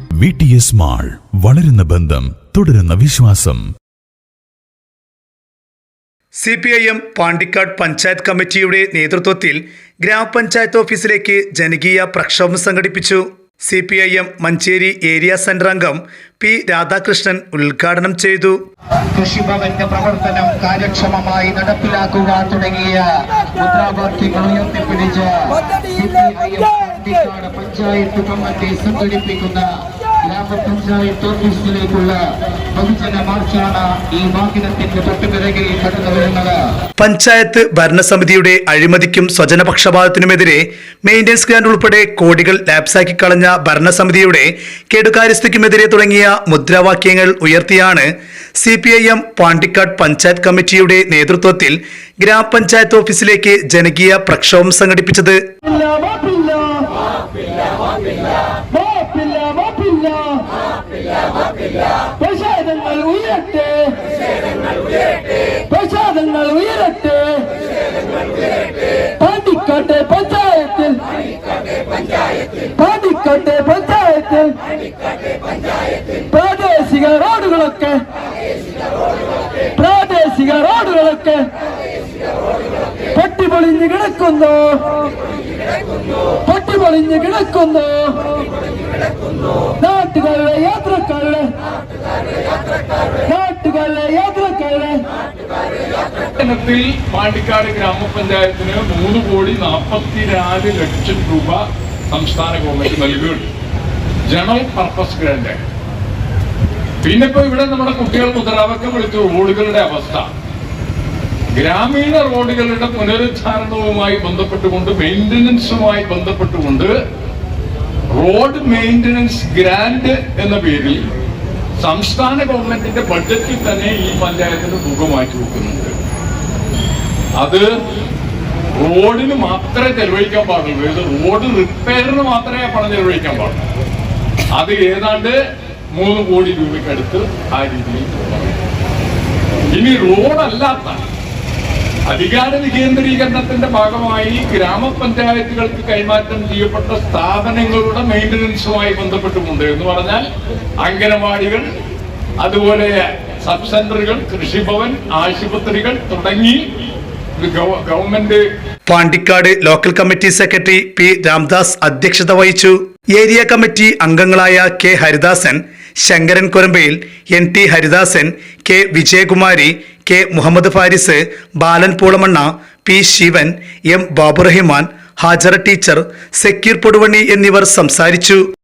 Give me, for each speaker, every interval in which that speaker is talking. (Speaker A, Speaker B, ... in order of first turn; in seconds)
Speaker A: 0.2-3.6
Speaker B: 6.4-18.6, 37.0-55.4, 158.9-178.4
Speaker C: 19.1-23.0, 23.6-29.6, 30.2-32.2, 32.7-36.6
Speaker D: 55.6-56.9, 58.7-60.4, 62.1-64.0, 65.7-67.5, 69.2-71.0, 72.7-74.5, 76.3-78.0, 79.8-81.4, 83.1-85.1, 86.4-88.4, 89.8-91.4, 93.2-95.0
Speaker E: 96.3-103.4, 104.3-105.6, 107.0-110.3, 111.6-116.9, 118.1-121.0, 121.8-125.9, 127.4-127.6, 128.8-133.6, 134.5-135.4, 135.9-138.5, 139.7-141.0, 142.1-150.2, 150.8-151.7, 152.4-156.6, 157.4-158.4